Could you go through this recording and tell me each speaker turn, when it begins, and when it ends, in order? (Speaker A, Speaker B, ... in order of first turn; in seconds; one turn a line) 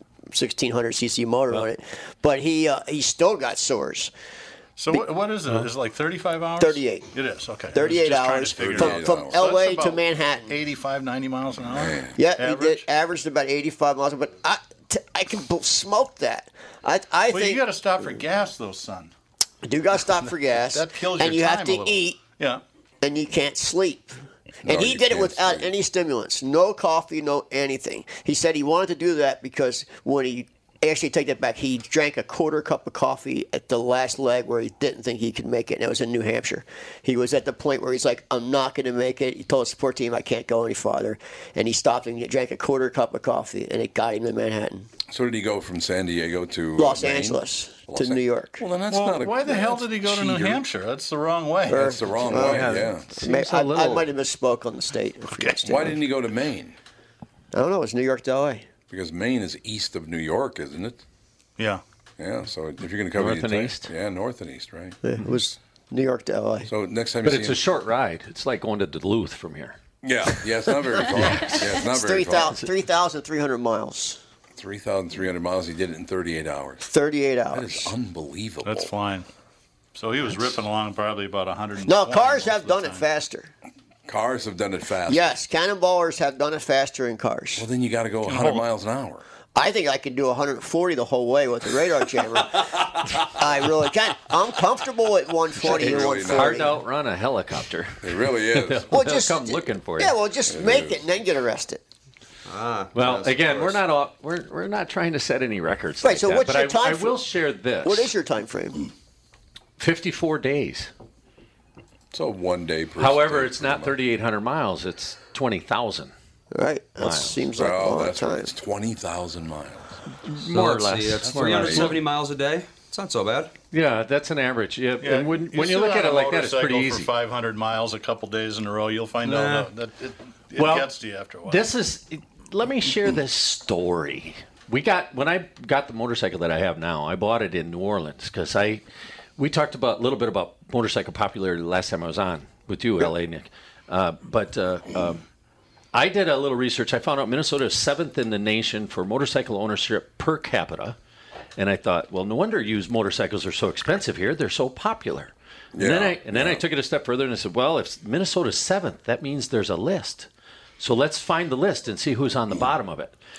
Speaker A: 0.3-4.1
Speaker B: 4.8-12.9
Speaker A: 6.6-7.1
Speaker A: 7.7-10.5
Speaker C: 8.6-9.5
Speaker C: 11.7-12.2
Speaker A: 12.2-17.6
Speaker B: 17.3-19.1
Speaker A: 19.6-22.2
Speaker B: 20.3-22.6
Speaker A: 23.0-44.9
Speaker C: 24.7-25.7
Speaker C: 45.1-50.6
Speaker A: 46.8-48.6
Speaker B: 48.9-52.5
Speaker A: 51.7-56.0
Speaker C: 51.7-53.1
Speaker D: 52.4-54.1
Speaker B: 55.3-55.6
Speaker C: 55.6-56.8
Speaker A: 57.5-58.6
Speaker C: 58.9-61.0
Speaker C: 62.2-65.0
Speaker D: 63.1-63.9
Speaker A: 65.0-66.7
Speaker C: 66.7-67.6
Speaker D: 67.2-69.8
Speaker C: 70.0-72.6
Speaker A: 71.1-74.2
Speaker C: 74.6-76.9
Speaker A: 76.8-77.9
Speaker C: 77.5-78.9
Speaker B: 78.6-79.3
Speaker B: 80.0-83.0
Speaker A: 81.9-83.5
Speaker C: 84.1-85.3
Speaker A: 85.1-87.7
Speaker C: 87.6-89.2
Speaker B: 88.3-88.7
Speaker A: 89.5-96.8
Speaker C: 92.4-93.5
Speaker C: 95.6-96.7
Speaker D: 95.6-100.2
Speaker C: 98.0-98.9
Speaker A: 98.9-101.8
Speaker C: 100.5-101.0
Speaker E: 102.5-103.8
Speaker D: 102.9-108.1
Speaker A: 106.0-107.2
Speaker A: 107.8-108.9
Speaker D: 109.8-110.9
Speaker C: 112.1-114.0
Speaker D: 113.0-116.1
Speaker A: 116.5-118.5
Speaker D: 117.0-117.4
Speaker C: 117.6-120.0
Speaker D: 120.1-122.0
Speaker E: 120.5-123.5
Speaker C: 121.3-122.0
Speaker D: 123.7-127.1
Speaker B: 125.0-131.7
Speaker E: 129.2-129.7
Speaker D: 130.6-130.9
Speaker D: 131.5-138.8
Speaker D: 139.4-145.2
Speaker D: 145.9-151.0
Speaker D: 151.6-160.3
Speaker C: 155.7-156.6
Speaker D: 160.8-163.2